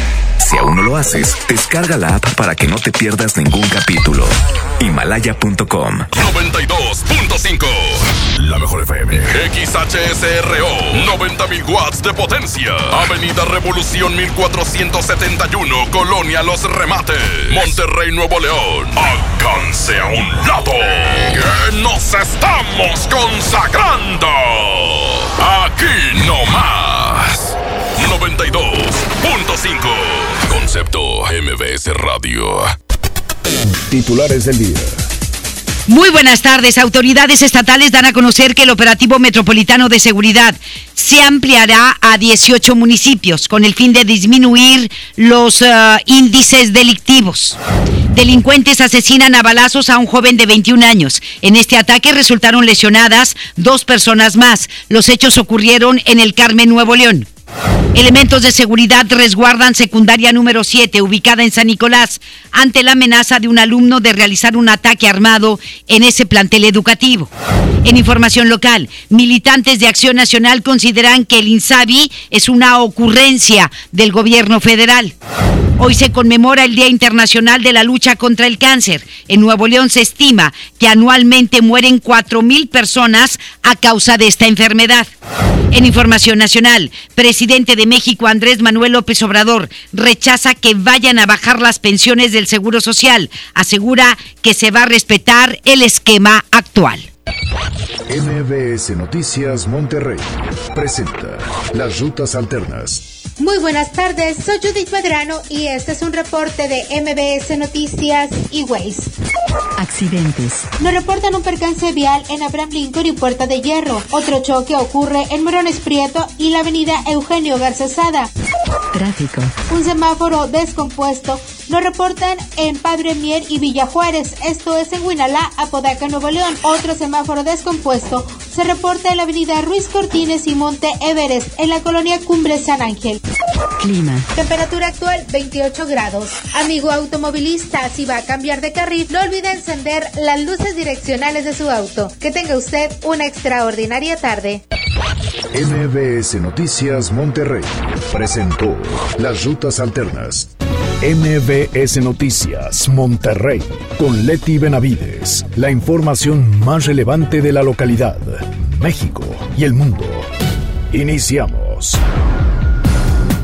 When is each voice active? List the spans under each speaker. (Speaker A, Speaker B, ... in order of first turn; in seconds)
Speaker A: 0.4-6.1
Speaker B: 6.1-32.7
Speaker C: 33.7-34.9, 98.1-103.1, 145.5-160.3, 160.9-162.0
Speaker D: 35.9-47.6, 48.1-57.3, 57.9-67.3, 67.8-75.1, 75.8-85.1, 85.7-97.1
Speaker E: 103.4-109.1, 110.8-118.3, 119.7-133.2, 134.3-144.6
Speaker F: 109.8-110.7, 118.9-119.5, 133.8-134.3